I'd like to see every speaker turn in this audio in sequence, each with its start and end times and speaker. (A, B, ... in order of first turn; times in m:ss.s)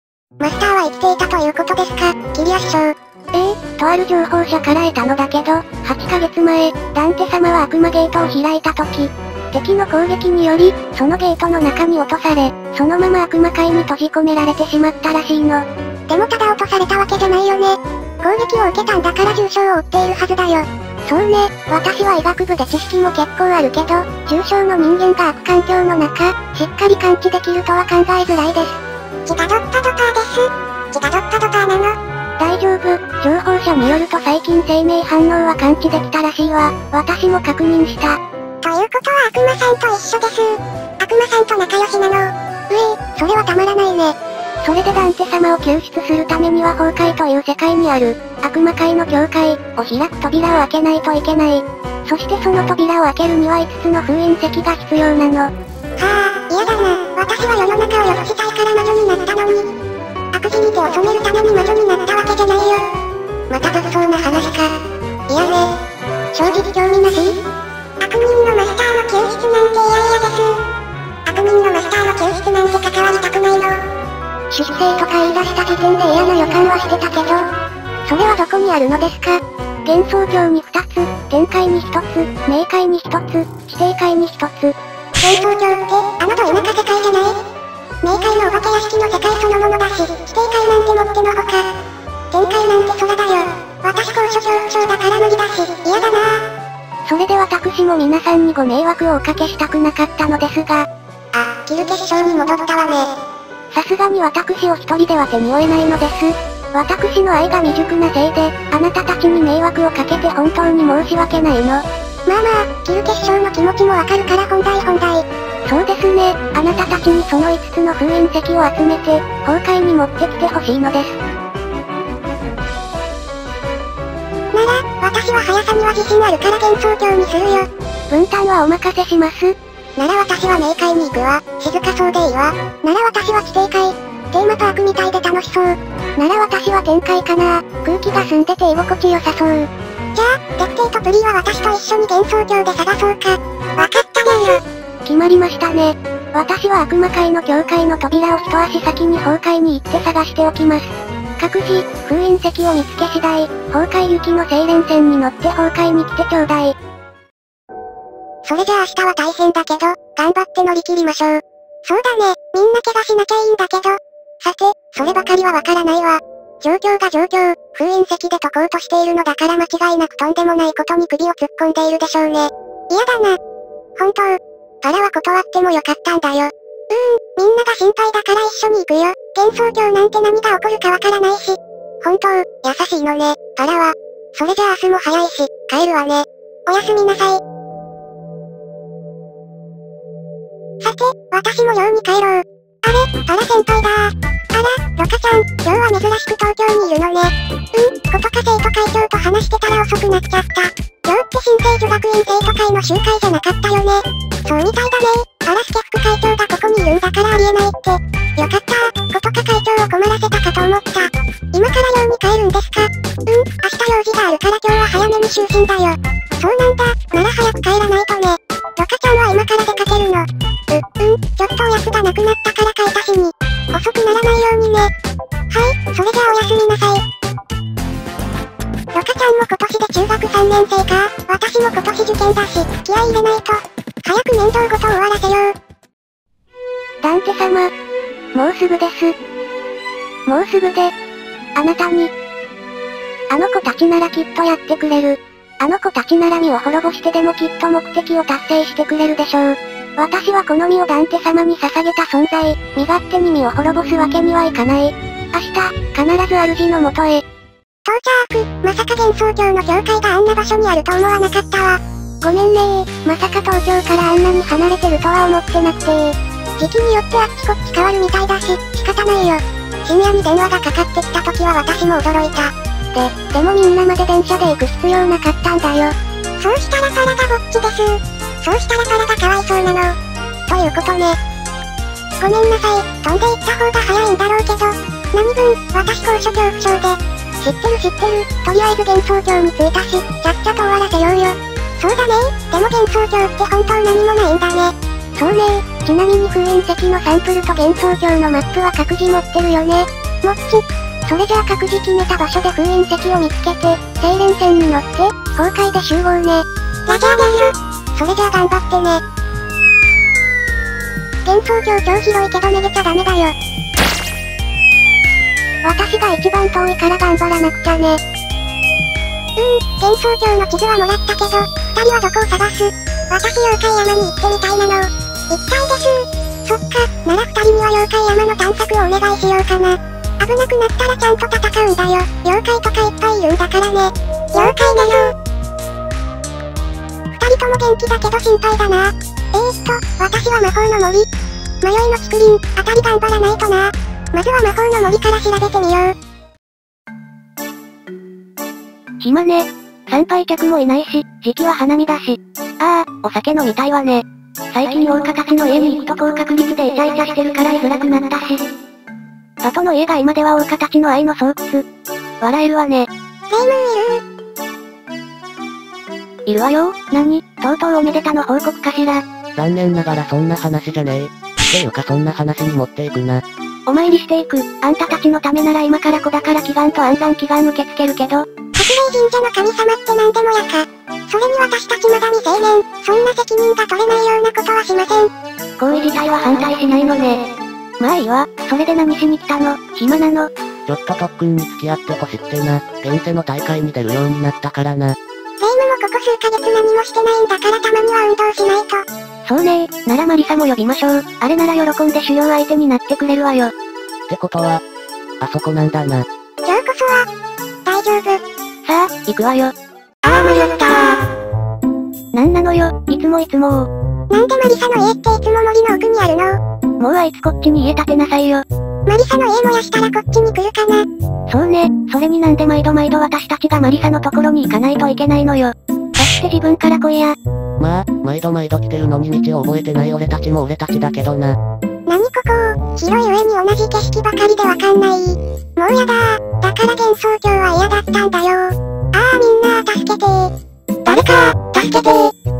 0:00.4-0:02.9 A
0:03.3-0:15.6 B
0:16.1-0:20.6 A
0:21.0-0:28.8 B
0:29.3-0:32.0 A
0:32.4-0:38.2 B
0:38.6-0:44.1 A
0:44.6-0:55.5 B
0:56.0-0:59.7 A
1:00.3-1:02.8 A
1:03.5-1:04.7 A
1:05.3-1:05.7 A
1:06.3-1:07.4 A
1:08.0-1:10.6 A
1:11.2-1:13.8 A
1:14.5-1:17.5 B
1:18.0-1:24.7 B
1:25.2-1:27.4 A
1:28.0-1:31.7 A
1:32.3-1:36.4 A
1:37.0-1:40.9 B
1:41.3-1:43.1 A
1:43.7-1:51.8 B
1:52.3-1:55.2 A
1:55.7-2:01.2 B
2:04.5-2:07.7 A
2:08.1-2:09.5 B
2:10.0-2:15.8 A
2:16.2-2:19.7 B
2:20.1-2:24.6 A
2:25.0-2:36.8 B
2:38.4-2:53.4 A
2:54.0-3:07.4 A
3:10.8-3:44.9 A
3:45.5-3:47.0 A
3:48.9-3:55.5 A
3:57.0-3:57.7 B
3:58.3-3:59.1 B
4:00.2-4:00.9 B
4:01.6-4:02.1 B
4:03.3-4:17.2 B
4:17.9-4:21.8 A
4:22.2-4:27.4 B
4:26.7-4:32.5 A
4:32.9-4:35.9 B
4:36.4-4:39.9 A
4:40.5-4:41.2 A
4:42.2-4:54.7 A
4:55.2-5:06.4 B
5:06.9-5:09.0 A
5:08.5-5:09.0 B
5:11.2-5:13.3 A
5:15.6-5:18.0 B
5:19.4-5:35.1 A
5:37.2-5:41.0 A
5:41.6-5:45.9 A
5:49.0-5:58.4 B
5:59.4-6:01.6 B
6:02.2-6:02.9 B
6:03.3-6:04.0 A
6:06.2-6:09.0 B
6:09.4-6:13.2 C
6:13.7-6:18.2 B
6:18.6-6:25.1 A
6:25.6-6:27.2 B
6:27.8-6:30.3 B
6:30.7-6:35.0 C
6:35.4-6:38.8 A
6:39.2-6:43.5 B
6:44.1-6:44.6 C
6:45.2-6:46.1 C
6:46.4-6:47.1 A
6:47.6-6:48.2 A
6:48.6-6:49.5 B
6:50.0-6:51.0 B
6:52.1-6:53.7 B
6:54.1-6:56.4 A
6:56.8-6:58.4 B
6:58.8-7:00.8 A
7:01.3-7:07.2 B
7:07.6-7:11.4 C
7:11.9-7:20.3 A
7:20.8-7:22.1 A